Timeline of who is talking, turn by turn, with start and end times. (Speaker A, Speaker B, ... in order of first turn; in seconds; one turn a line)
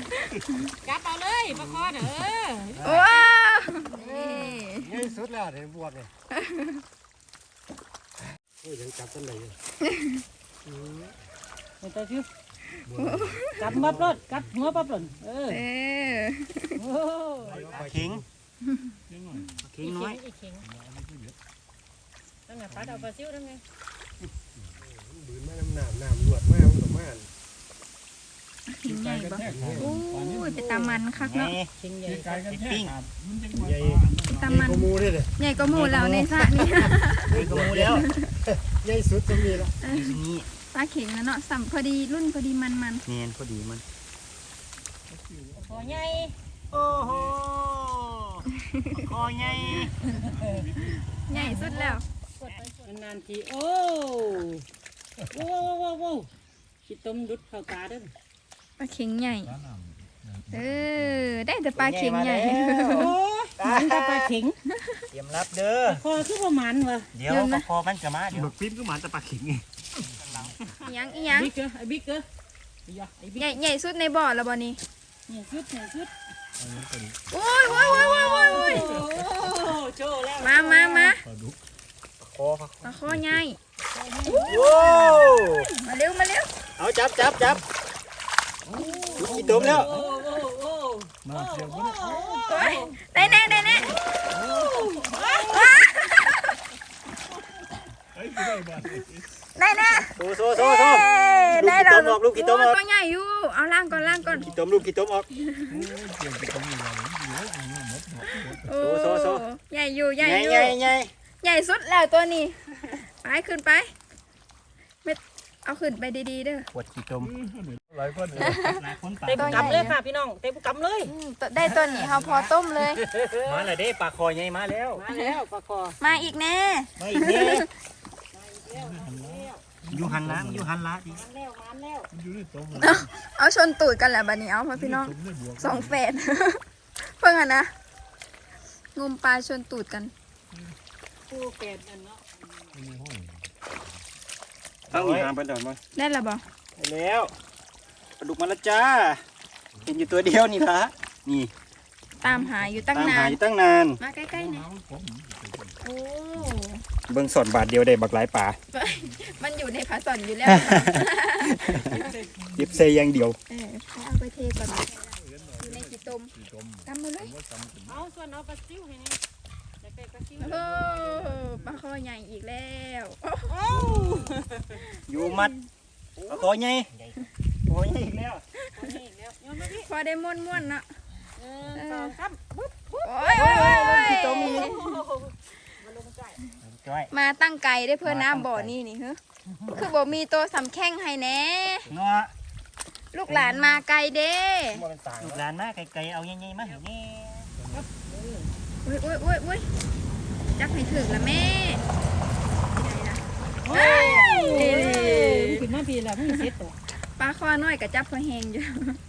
Speaker A: 0.8-3.3
Speaker B: 1.5-1.8
Speaker C: 2.8-5.1
Speaker B: 3.9-6.1
Speaker C: 6.3-6.8
Speaker B: 8.6-9.6
Speaker B: 10.7-11.1
Speaker A: 11.8-12.3
Speaker B: 12.9-13.5
Speaker C: 13.0-13.7
Speaker A: 13.5-15.7
Speaker D: 13.7-14.0
Speaker E: 13.7-14.2
Speaker C: 15.5-16.8
Speaker A: 16.8-17.7
Speaker B: 17.4-18.2
Speaker D: 17.6-18.2
Speaker E: 19.1-19.6
Speaker D: 19.6-20.2
Speaker A: 19.8-20.7
Speaker E: 20.7-21.4
Speaker A: 22.5-23.6
Speaker E: 22.8-23.1
Speaker B: 24.9-27.3
Speaker C: 28.7-31.6
Speaker E: 28.9-30.6
Speaker B: 29.4-29.9
Speaker D: 31.2-31.7
Speaker A: 31.8-32.4
Speaker E: 32.1-34.6
Speaker D: 32.4-32.9
Speaker B: 33.6-35.3
Speaker C: 34.3-37.4
Speaker D: 35.6-36.6
Speaker B: 37.3-39.8
Speaker E: 37.3-38.0
Speaker D: 37.4-38.1
Speaker C: 37.9-38.3
Speaker C: 39.8-40.2
Speaker D: 39.8-40.5
Speaker C: 40.7-43.0
Speaker D: 43.1-43.8
Speaker E: 45.1-47.4
Speaker A: 45.5-46.4
Speaker D: 46.7-50.0
Speaker C: 48.6-49.0
Speaker E: 49.2-51.2
Speaker A: 50.0-50.7
Speaker C: 51.3-52.0
Speaker A: 51.3-54.6
Speaker A: 55.3-56.3
Speaker A: 56.9-58.1
Speaker C: 58.8-59.5
Speaker E: 59.4-61.4
Speaker C: 60.5-63.1
Speaker D: 61.8-64.3
Speaker A: 62.9-64.6
Speaker C: 64.7-65.1
Speaker D: 65.1-66.0
Speaker A: 65.9-67.1
Speaker D: 67.1-70.9
Speaker C: 67.3-67.7
Speaker E: 70.1-70.4
Speaker C: 70.8-71.5
Speaker A: 71.3-72.3
Speaker A: 72.9-73.6
Speaker C: 73.4-74.8
Speaker A: 75.3-76.1
Speaker E: 76.6-79.3
Speaker C: 77.3-78.9
Speaker A: 78.0-81.1
Speaker C: 80.4-81.2
Speaker E: 81.2-81.6
Speaker D: 82.2-82.9
Speaker C: 82.8-83.6
Speaker E: 83.1-83.4
Speaker A: 83.9-85.0
Speaker C: 84.3-86.5
Speaker D: 84.4-85.7
Speaker D: 86.8-87.6
Speaker E: 88.7-90.2
Speaker A: 88.7-93.0
Speaker D: 89.2-89.9
Speaker E: 91.2-92.1
Speaker C: 92.0-94.2
Speaker E: 93.2-95.4
Speaker A: 94.5-95.8
Speaker C: 95.5-96.5
Speaker E: 98.1-99.3
Speaker C: 99.5-104.5
Speaker D: 100.2-102.8
Speaker E: 104.0-104.6
Speaker D: 104.4-105.3
Speaker C: 105.4-105.8
Speaker E: 105.7-108.7
Speaker C: 108.3-110.8
Speaker D: 108.8-109.5
Speaker D: 110.2-111.1
Speaker C: 111.4-113.9
Speaker C: 115.0-116.7
Speaker D: 116.7-117.3
Speaker E: 117.3-118.6
Speaker D: 118.4-120.0
Speaker C: 118.4-119.9
Speaker A: 119.2-121.1
Speaker C: 121.1-123.0
Speaker D: 121.7-122.5
Speaker A: 123.0-123.7
Speaker D: 123.4-125.0
Speaker A: 125.0-126.0
Speaker C: 126.0-127.6
Speaker D: 127.0-127.7
Speaker A: 128.3-129.6
Speaker E: 128.7-130.7
Speaker D: 129.9-131.2
Speaker A: 131.1-132.1
Speaker E: 132.1-133.1
Speaker C: 132.8-137.7
Speaker E: 134.7-136.0
Speaker C: 138.9-140.1
Speaker A: 141.3-142.8
Speaker E: 142.7-143.5
Speaker D: 144.9-145.8
Speaker C: 145.9-146.4
Speaker D: 146.8-147.3
Speaker D: 148.2-149.2
Speaker E: 149.8-150.3
Speaker D: 149.8-151.5
Speaker E: 152.2-153.0
Speaker C: 152.2-153.4
Speaker D: 152.9-154.0
Speaker C: 154.0-154.7
Speaker E: 154.3-155.8
Speaker C: 155.8-156.8
Speaker D: 157.1-158.6
Speaker C: 158.7-161.9
Speaker D: 160.4-163.4
Speaker C: 163.5-166.3
Speaker E: 165.0-168.1
Speaker C: 166.8-167.3
Speaker A: 167.9-169.2
Speaker A: 169.8-170.7
Speaker E: 170.4-171.8
Speaker C: 170.4-175.7
Speaker A: 173.5-174.8
Speaker D: 175.1-175.5
Speaker A: 176.2-176.5
Speaker D: 176.3-178.4
Speaker A: 178.7-179.9
Speaker C: 179.8-180.9
Speaker A: 181.4-186.4
Speaker C: 181.7-182.1
Speaker C: 183.0-184.8
Speaker D: 183.3-184.7
Speaker D: 186.6-187.1
Speaker C: 187.1-191.9
Speaker D: 188.0-188.8
Speaker A: 189.6-189.9
Speaker D: 191.9-192.3
Speaker C: 193.1-194.8
Speaker A: 193.3-193.8
Speaker B: 194.8-195.4
Speaker D: 194.8-197.5
Speaker E: 197.6-197.9
Speaker A: 197.7-198.5
Speaker C: 198.8-199.7
Speaker C: 200.6-201.8
Speaker C: 202.7-205.6
Speaker A: 203.6-206.8
Speaker C: 207.1-209.0